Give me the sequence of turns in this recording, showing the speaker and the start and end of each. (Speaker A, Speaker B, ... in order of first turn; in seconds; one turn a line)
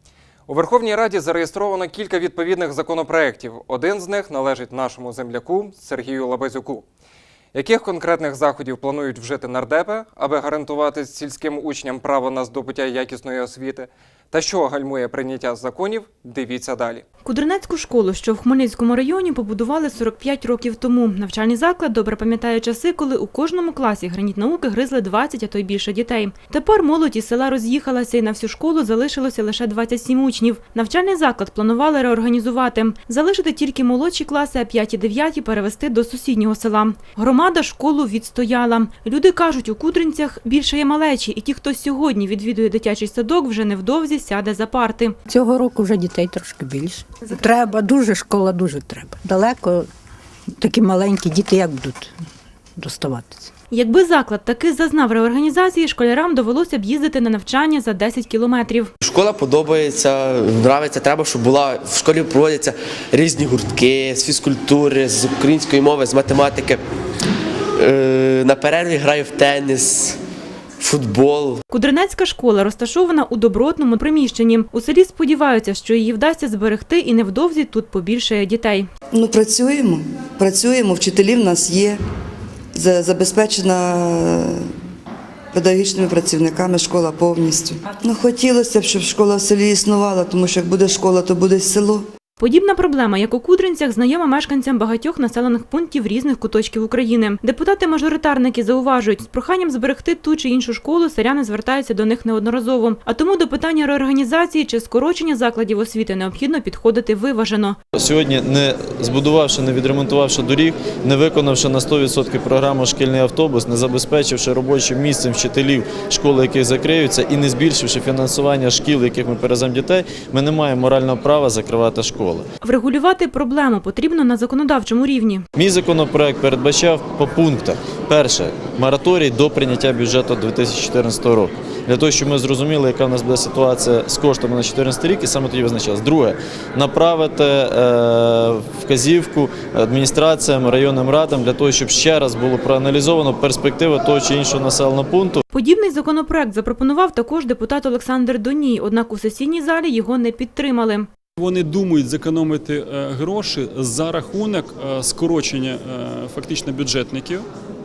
Speaker A: 0.5-6.8
Speaker A: 7.5-17.0
Speaker B: 17.2-45.1
Speaker C: 45.3-49.9
Speaker C: 50.6-52.1
Speaker C: 52.8-53.5
Speaker B: 53.7-58.9
Speaker D: 59.0-66.8
Speaker D: 67.8-70.2
Speaker D: 70.8-71.6
Speaker B: 71.7-78.9
Speaker E: 79.1-82.0
Speaker E: 82.8-84.5
Speaker E: 85.5-92.0
Speaker B: 92.4-107.8
Speaker F: 107.9-122.5
Speaker B: 122.6-125.4
Speaker F: 125.5-145.4
Speaker B: 145.5-151.1
Speaker G: 151.4-157.5